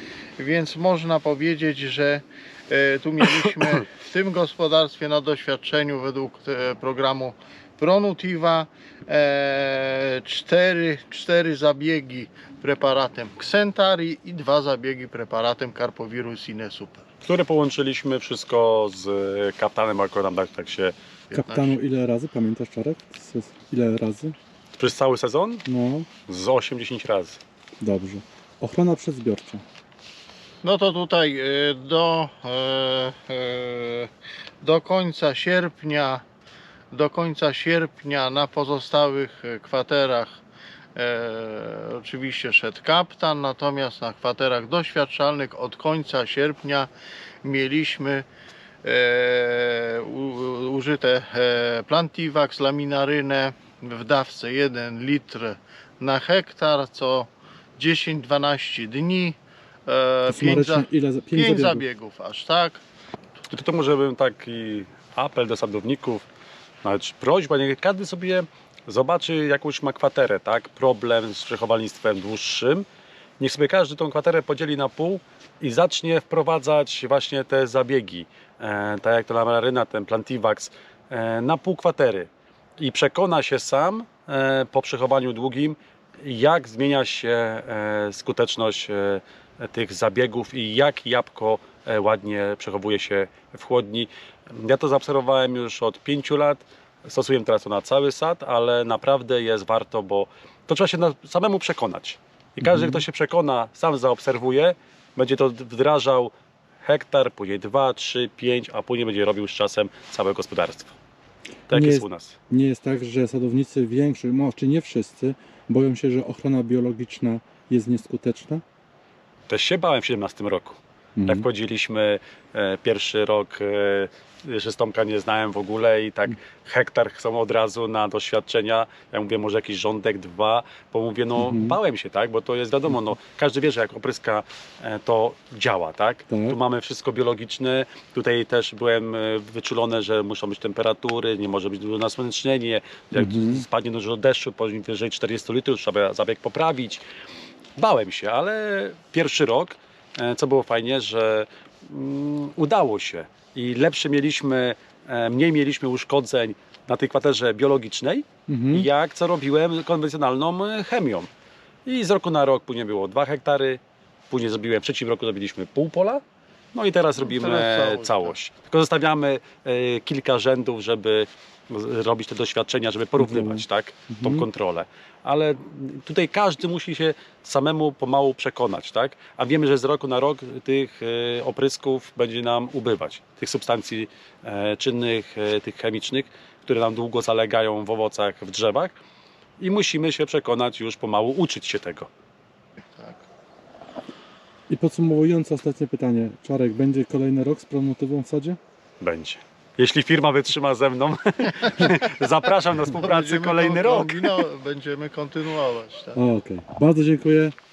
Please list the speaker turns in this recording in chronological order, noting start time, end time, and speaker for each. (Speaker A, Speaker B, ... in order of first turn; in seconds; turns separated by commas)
Speaker A: 0.4-17.1, Speaker B: 17.2-20.9, Speaker C: 21.3-24.4, Speaker A: 21.5-21.8, Speaker B: 24.8-25.6, Speaker C: 25.7-26.1, Speaker B: 26.3-27.4, Speaker C: 27.8-29.6, Speaker A: 30.6-34.1, Speaker A: 34.6-36.2, Speaker A: 36.9-40.3, Speaker A: 41.0-46.9, Speaker A: 47.4-48.2, Speaker A: 48.8-62.8, Speaker C: 60.3-61.8, Speaker B: 63.5-66.2, Speaker B: 66.8-72.9, Speaker B: 73.4-106.3, Speaker C: 102.6-103.0, Speaker B: 106.8-111.0, Speaker B: 111.7-112.4, Speaker C: 111.7-118.6, Speaker B: 119.5-147.0, Speaker C: 121.2-121.5, Speaker C: 131.4-131.8, Speaker C: 136.3-136.6, Speaker C: 143.2-143.7, Speaker B: 147.8-161.3, Speaker C: 158.5-158.9, Speaker B: 161.9-166.2, Speaker B: 166.7-188.9, Speaker A: 167.2-168.4, Speaker C: 173.2-174.5, Speaker B: 189.6-192.1, Speaker A: 193.0-193.2, Speaker C: 194.7-198.6, Speaker B: 199.0-204.3, Speaker A: 203.0-206.2, Speaker C: 206.2-207.5